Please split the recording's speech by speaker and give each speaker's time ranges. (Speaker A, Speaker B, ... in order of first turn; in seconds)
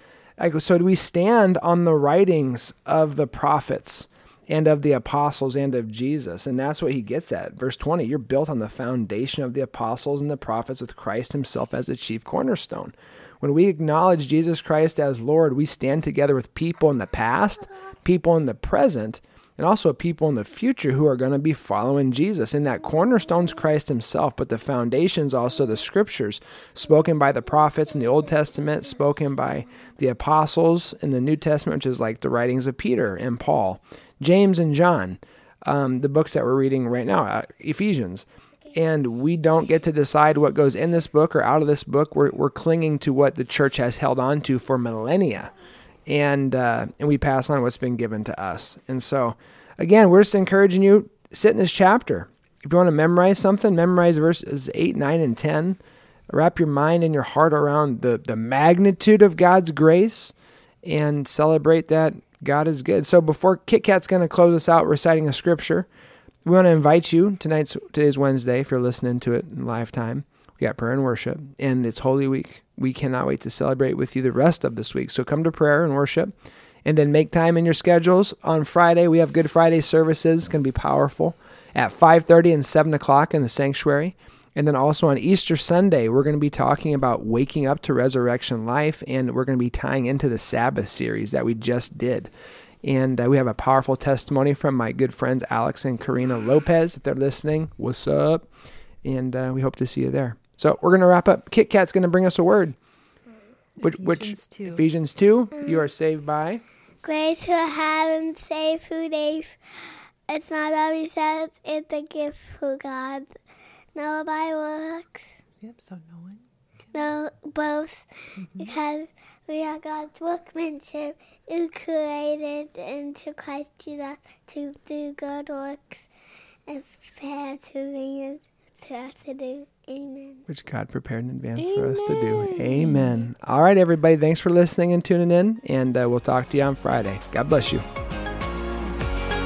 Speaker A: 0.4-45.5, 46.1-55.8, 56.3-65.9, 66.5-76.3, 76.8-92.3, 92.8-98.5, 99.0-102.8, 103.8-106.6, 130.5-137.8
Speaker B: 103.8-104.8, 115.6-116.5, 118.4-118.7, 131.6-133.2
Speaker C: 107.0-109.6, 110.3-113.3, 114.0-115.2, 116.9-126.0, 126.7-130.4